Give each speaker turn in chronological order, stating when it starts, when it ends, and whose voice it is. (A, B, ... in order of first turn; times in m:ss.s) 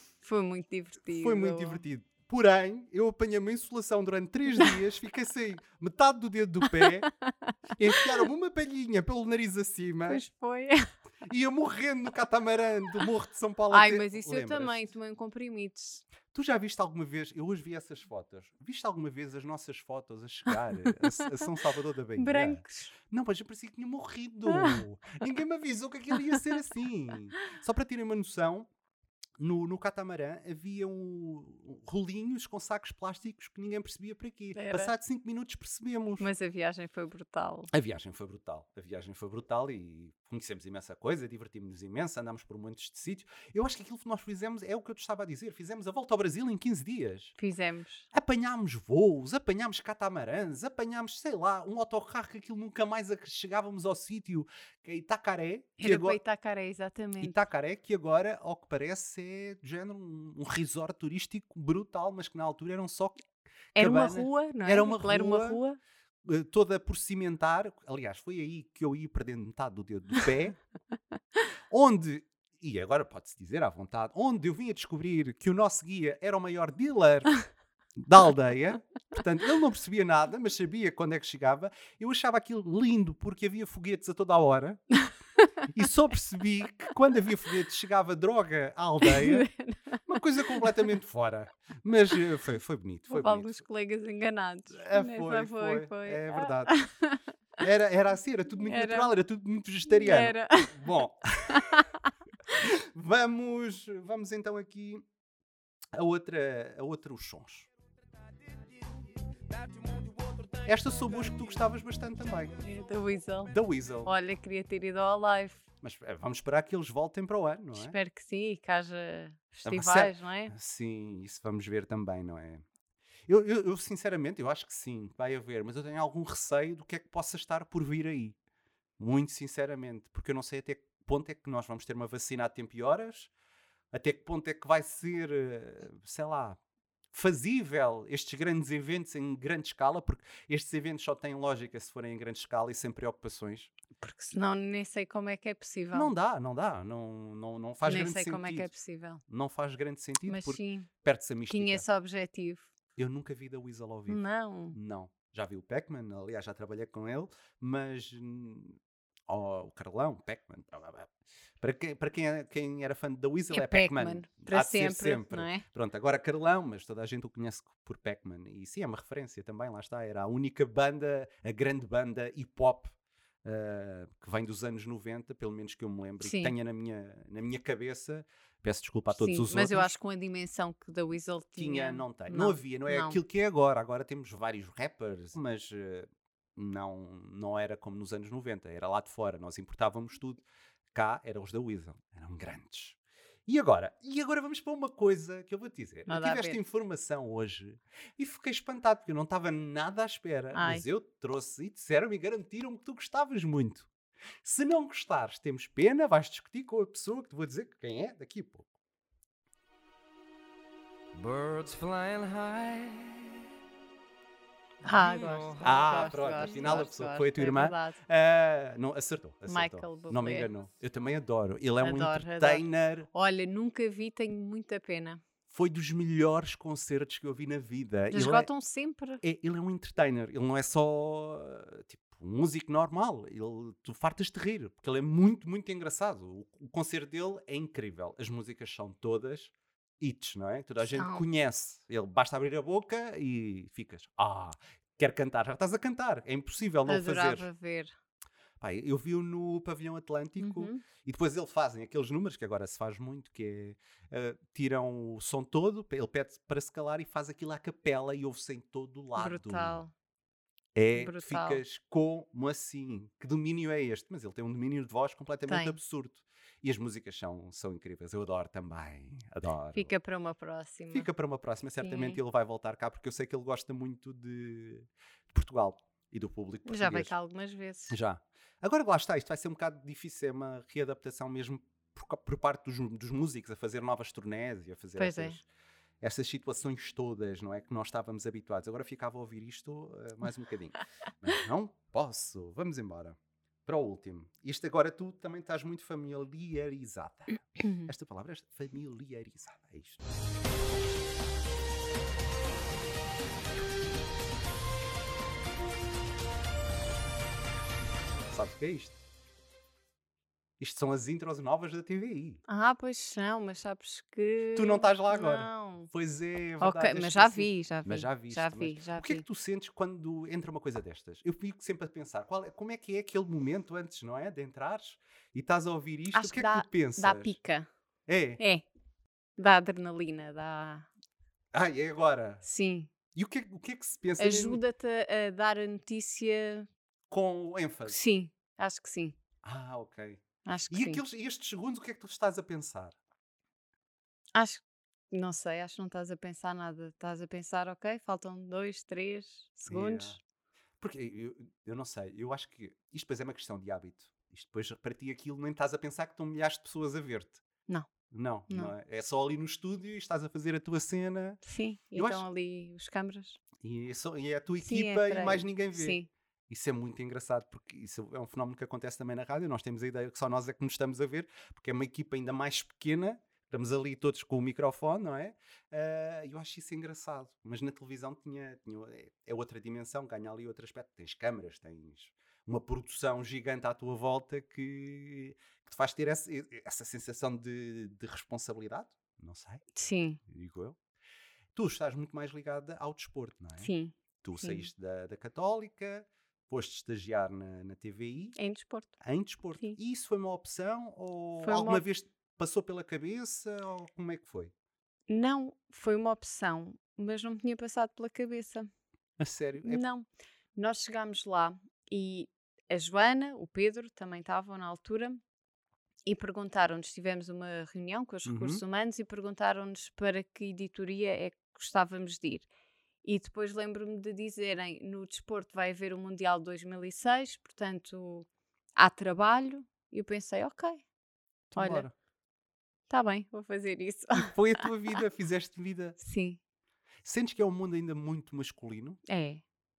0:00.2-0:01.8 A
0:01.1-0:07.1 B
0:06.8-0:08.0 A
0:07.8-0:10.2 B
0:10.1-0:10.9 A
0:11.3-0:14.8 B
0:13.7-0:16.0 A
0:16.3-0:28.7 B
0:22.2-0:22.9 A
0:24.5-0:24.8 A
0:29.4-0:36.3 B
0:34.6-0:34.9 A
0:36.2-0:37.7 A
0:37.7-0:47.4 B
0:47.4-0:48.1 A
0:48.1-0:56.2 B
0:55.8-0:57.4 A
0:57.2-1:03.2 B
1:03.7-1:05.6 B
1:03.8-1:05.8 A
1:06.2-1:10.6 B
1:11.7-1:17.4 B
1:18.0-1:24.8 B
1:25.0-1:25.5 A
1:25.7-1:29.5 B
1:29.0-1:30.0 A
1:30.1-1:33.6 B
1:33.1-1:37.2 A
1:34.7-1:36.8 B
1:37.6-1:41.6 B
1:38.6-1:39.1 A
1:39.9-1:40.9 A
1:41.5-1:41.9 A
1:42.6-1:45.0 B
1:45.9-1:47.7 B
1:50.6-1:52.6 B
1:52.6-1:53.5 A
1:53.5-1:54.1 B
1:54.0-1:55.6 A
1:55.8-1:58.0 B
1:57.7-2:00.5 A
1:59.6-2:02.6 B
2:03.3-2:08.4 B
2:09.0-2:13.3 B
2:13.9-2:16.6 B
2:17.1-2:23.7 B
2:24.0-2:26.1 A
2:25.9-2:28.7 B
2:27.8-2:29.2 A
2:29.3-2:31.8 B
2:30.3-2:30.9 A
2:31.5-2:32.7 A
2:33.0-2:41.1 B
2:34.1-2:34.8 A
2:41.6-2:59.9 B
2:43.5-2:45.6 A
2:56.2-2:56.5 A
2:59.1-3:03.2 A
3:01.6-3:23.9 B
3:16.1-3:16.6 A
3:20.6-3:20.8 A
3:24.4-3:28.7 B
3:31.1-3:33.4 C
3:34.8-3:38.0 A
3:34.9-3:36.0 C
3:35.6-3:43.1 B
3:39.5-3:40.5 A
3:41.8-3:45.2 A
3:45.5-3:48.5 B
3:48.1-3:49.2 A
3:49.2-4:07.5 B
4:00.9-4:01.2 A
4:06.9-4:07.9 A
4:08.6-4:19.8 B
4:10.4-4:10.8 A
4:19.2-4:19.9 A
4:20.8-4:29.9 B
4:21.0-4:21.6 A
4:25.5-4:25.8 A
4:29.7-4:31.1 A
4:30.9-4:37.1 B
4:31.8-4:32.2 A
4:36.7-4:38.0 A
4:37.9-4:45.4 B
4:45.0-4:45.4 A
4:46.0-5:00.0 B
4:57.6-4:57.9 A
5:08.3-5:09.0 B
5:10.6-5:12.4 B
5:12.5-5:15.9 A
5:14.6-5:27.4 B
5:16.6-5:19.2 A
5:26.1-5:27.7 A
5:28.1-5:28.4 B
5:28.4-5:28.6 A
5:29.4-5:30.9 A
5:31.5-5:32.4 B
5:32.4-5:32.9 A
5:33.1-5:34.6 B
5:34.2-5:36.7 A
5:37.1-5:38.0 B
5:37.9-5:39.2 A
5:39.4-5:43.0 B
5:40.4-5:41.0 A
5:44.4-5:50.2 A
5:49.7-5:50.2 B
5:50.8-5:57.4 B
5:58.1-6:01.4 B
6:01.4-6:03.4 A
6:01.9-6:02.2 B
6:03.6-6:29.6 B
6:04.6-6:06.1 A
6:29.8-6:30.2 A
6:30.3-6:30.8 B
6:31.6-6:33.7 B
6:33.6-6:34.7 A
6:34.2-6:38.4 B
6:38.4-6:39.0 A
6:39.0-6:44.5 B
6:41.4-6:41.8 A
6:45.1-6:48.7 A
6:49.2-6:49.8 B
6:49.6-6:55.2 A
6:56.1-7:02.5 A
6:58.3-6:58.6 B
7:03.0-7:10.8 A
7:11.5-7:11.9 B
7:11.6-7:11.9 A
7:12.9-7:14.6 A
7:14.2-7:16.0 B
7:16.0-7:16.4 A
7:17.0-7:19.0 B
7:19.1-7:19.4 A